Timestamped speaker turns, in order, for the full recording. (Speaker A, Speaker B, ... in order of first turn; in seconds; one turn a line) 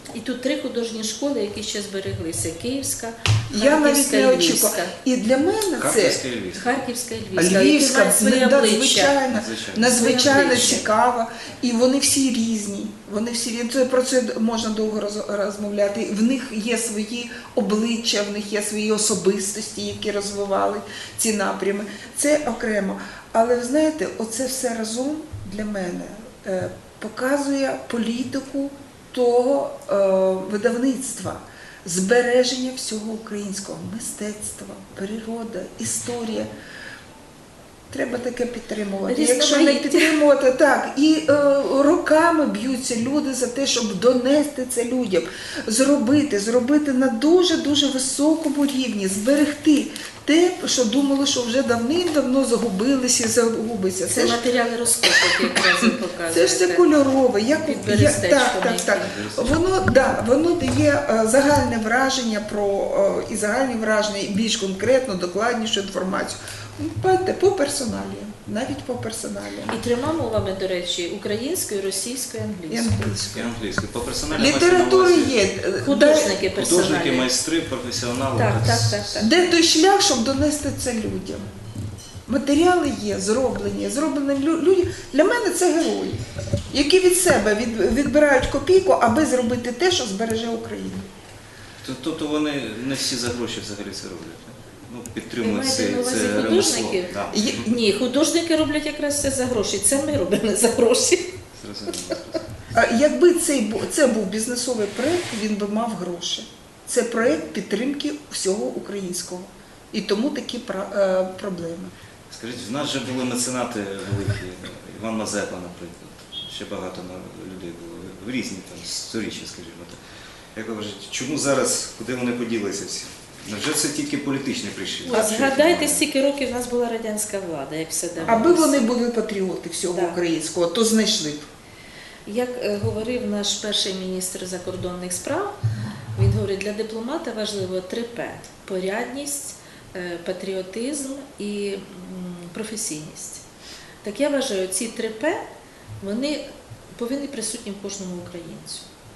Speaker A: 0.1-5.0
Speaker B: 3.5-6.2
Speaker C: 5.8-6.8
Speaker A: 6.5-9.2
Speaker B: 7.3-36.5
Speaker C: 9.3-10.1
Speaker A: 9.8-10.9
Speaker B: 37.9-54.4
Speaker A: 39.1-40.1
Speaker A: 54.1-56.9
Speaker B: 55.8-69.8
Speaker A: 57.5-59.3
Speaker C: 59.0-59.6
Speaker A: 69.7-73.2
Speaker B: 72.7-73.5
Speaker C: 73.3-75.4
Speaker B: 74.3-76.3
Speaker A: 75.8-77.3
Speaker C: 76.4-79.3
Speaker A: 78.3-79.3
Speaker B: 79.2-81.5
Speaker B: 82.3-91.0
Speaker C: 91.8-97.5
Speaker A: 95.4-101.3
Speaker B: 97.3-97.6
Speaker C: 101.6-102.4
Speaker B: 102.7-111.9
Speaker C: 112.3-120.0
Speaker C: 120.5-126.1
Speaker A: 125.0-128.9
Speaker B: 125.1-125.4
Speaker C: 128.2-128.5
Speaker B: 128.3-131.5
Speaker A: 129.9-130.2
Speaker A: 132.3-135.6
Speaker A: 136.2-143.4
Speaker A: 144.0-145.4
Speaker A: 146.0-146.4
Speaker A: 147.0-148.9